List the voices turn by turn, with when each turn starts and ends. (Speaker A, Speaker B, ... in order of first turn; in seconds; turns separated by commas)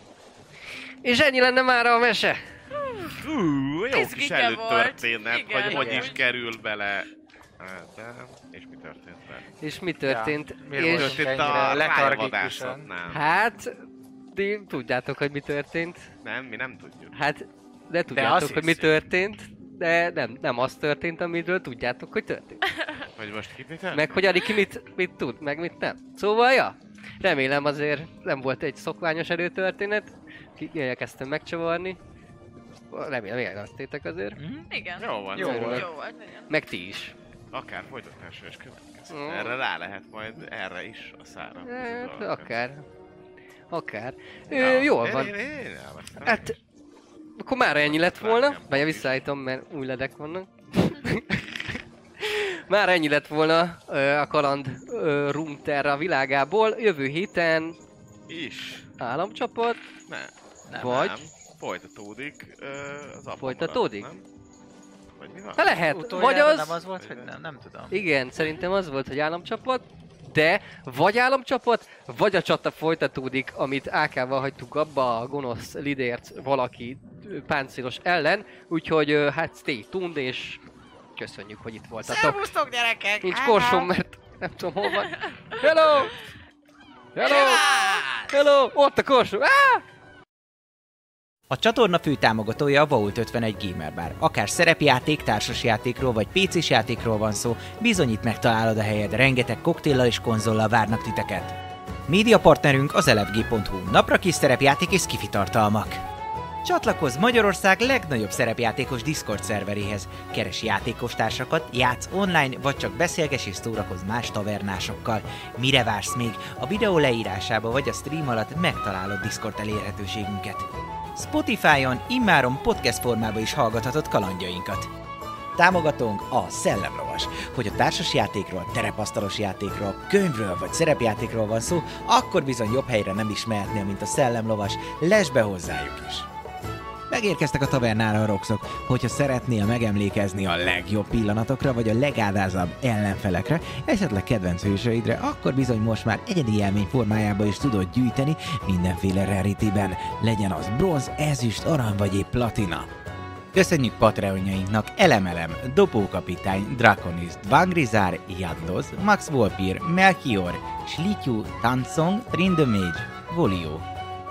Speaker A: 1.0-2.5, Speaker B: 3.1-9.5, Speaker C: 3.9-6.2, Speaker D: 5.7-6.1, Speaker A: 9.6-11.8, Speaker D: 10.1-12.9, Speaker B: 10.8-13.2, Speaker A: 13.1-16.1, Speaker B: 16.2-17.1, Speaker A: 17.1-22.6, Speaker D: 18.1-18.8, Speaker B: 23.0-24.2, Speaker A: 23.9-32.0, Speaker A: 32.9-34.4, Speaker D: 34.4-34.7, Speaker C: 34.7-36.5, Speaker B: 35.0-35.8, Speaker D: 35.3-35.9, Speaker A: 35.4-35.9, Speaker A: 36.5-37.1, Speaker B: 37.5-42.5, Speaker A: 39.1-39.6, Speaker A: 41.6-42.9, Speaker A: 43.7-45.3, Speaker B: 44.5-46.5, Speaker A: 46.2-46.6, Speaker A: 47.4-57.8, Speaker B: 47.7-49.2, Speaker B: 58.3-58.9, Speaker A: 59.0-59.8, Speaker B: 60.1-64.2, Speaker D: 60.7-61.0, Speaker A: 60.8-61.2, Speaker A: 63.4-64.1, Speaker B: 65.2-65.8, Speaker A: 65.6-66.8, Speaker D: 65.8-68.0, Speaker B: 67.0-67.3, Speaker A: 67.9-80.6, Speaker A: 81.2-82.5, Speaker E: 82.0-83.8, Speaker A: 83.2-86.2, Speaker A: 87.2-87.7, Speaker E: 87.2-88.1, Speaker A: 88.3-89.8, Speaker E: 91.5-101.6, Speaker E: 102.1-106.0, Speaker E: 106.6-124.9, Speaker E: 125.6-136.3, Speaker E: 137.1-152.9, Speaker E: 153.5-163.9